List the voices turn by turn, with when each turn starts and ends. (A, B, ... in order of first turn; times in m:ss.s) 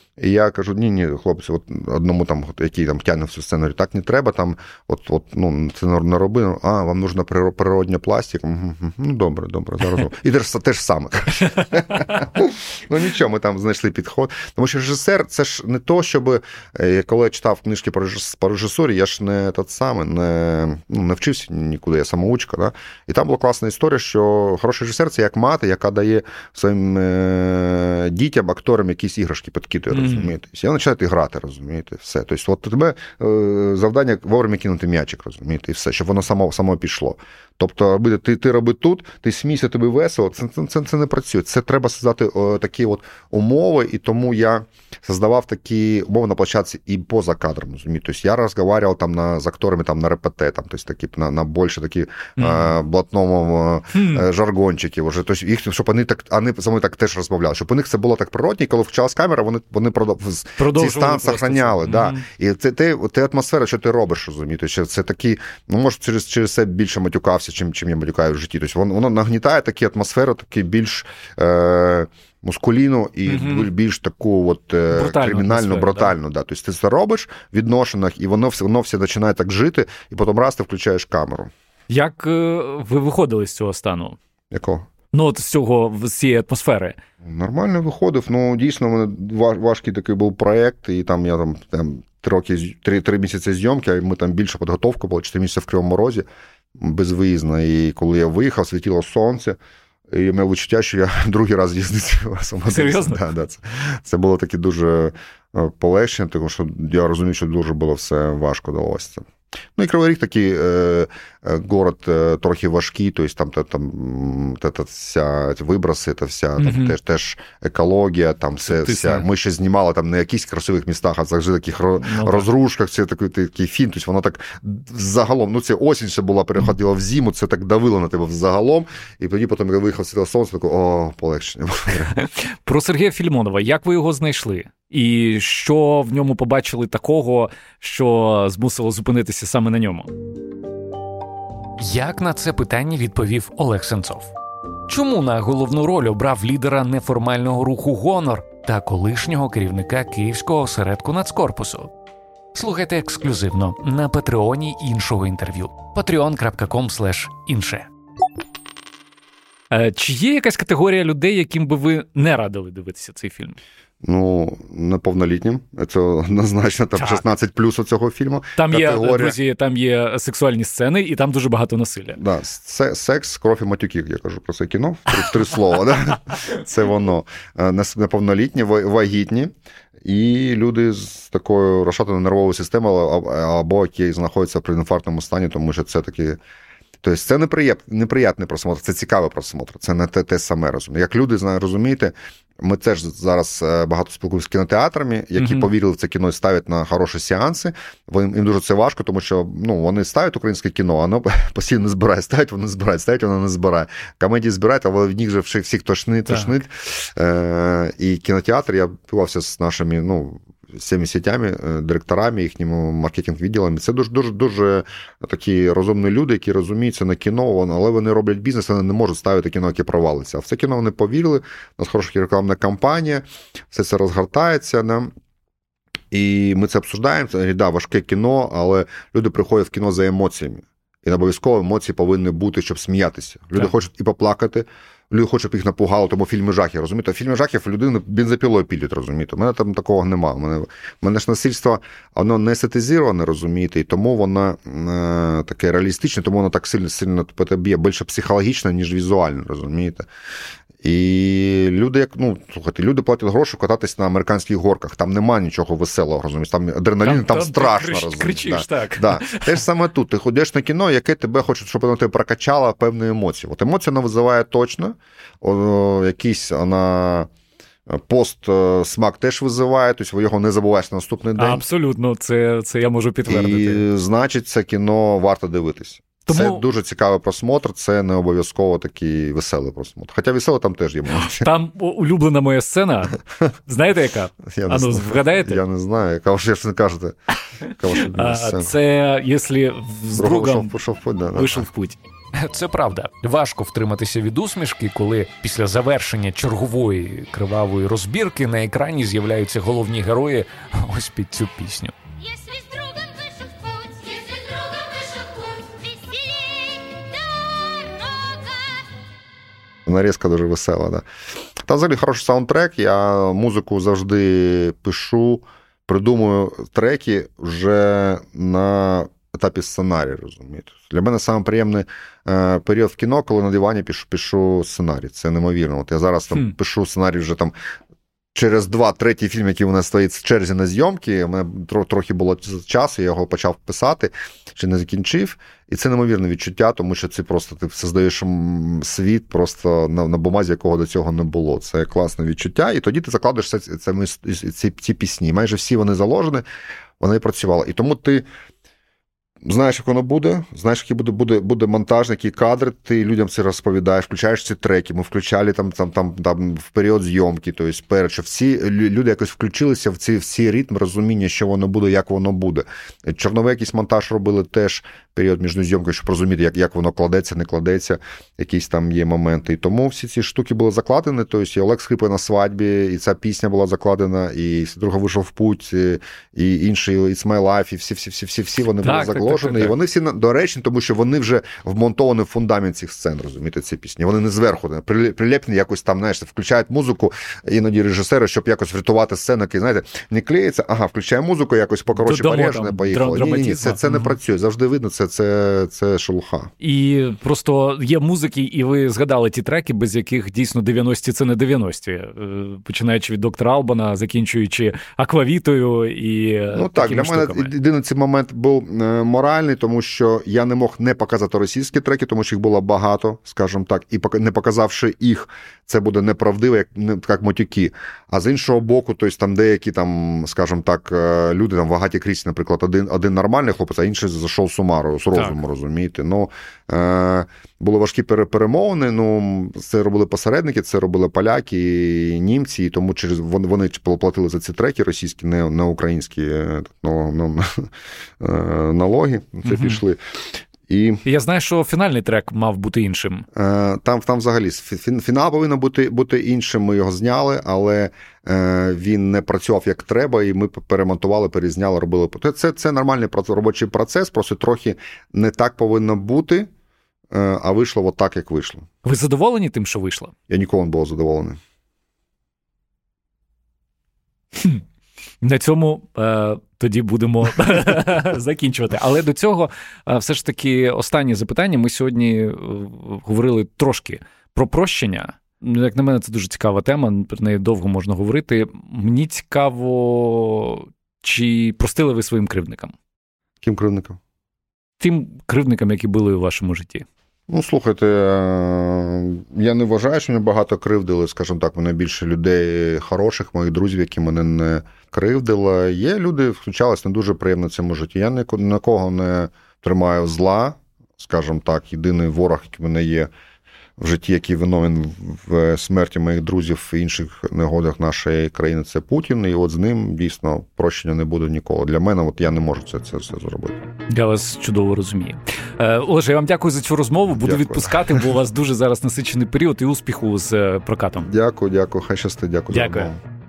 0:00.2-1:21.5 A
0:29.9-0:30.3 B
0:52.4-0:52.7 B
0:53.9-0:54.2 B
1:00.6-1:02.2 B
1:13.3-1:13.7 B
1:14.9-1:16.1 B
1:21.9-1:24.2 B
1:24.5-1:24.9 A
1:25.1-1:27.0 B
1:27.2-1:36.2 A
1:36.8-1:39.6 A
1:40.1-2:12.1 A
1:42.7-1:43.2 B
1:56.6-1:56.9 B
1:58.7-1:59.2 B
2:02.0-2:02.5 B
2:12.2-2:20.1 B
2:21.8-2:24.3 C
2:24.9-2:31.9 C
2:32.5-2:37.9 C
2:39.7-2:43.6 B
2:44.0-2:49.4 A
2:47.0-2:47.2 B
2:48.6-2:52.2 B
2:52.2-2:59.5 A
3:00.0-3:06.4 A
3:07.0-3:45.1 A
3:15.4-3:15.7 B
3:46.1-4:10.1 A
4:10.8-4:27.3 A
4:17.0-4:19.6 B
4:27.9-4:31.7 A
4:31.4-4:33.8 B
4:33.3-4:41.5 A
4:36.3-4:36.6 B
4:41.3-4:45.6 B
4:44.5-4:47.2 A
4:47.7-4:48.7 A
4:47.7-4:50.7 B
4:50.2-4:51.7 A
4:51.3-4:52.0 B
4:52.3-5:01.9 C
5:09.8-5:11.0 A
5:11.6-5:27.5 A
5:28.3-5:46.4 A
5:47.0-5:48.2 A
5:49.4-6:36.5 A
6:18.8-6:19.7 B
6:31.9-6:34.2 B
6:36.6-6:47.5 B
6:46.5-7:20.0 A
7:19.4-7:19.8 B
7:20.7-7:21.0 A
7:21.0-7:23.3 B
7:23.3-7:36.5 A
7:37.1-7:38.7 A
7:38.8-7:40.1 B
7:40.3-7:41.4 A
7:44.4-7:44.6 B
7:45.2-8:02.7 B
8:03.4-8:04.0 A
8:04.8-8:06.8 B
8:07.3-8:23.1 A
8:23.8-8:33.6 A
8:33.9-8:41.1 B
8:37.1-8:38.1 A
8:41.0-8:43.0 A
8:42.5-8:42.9 B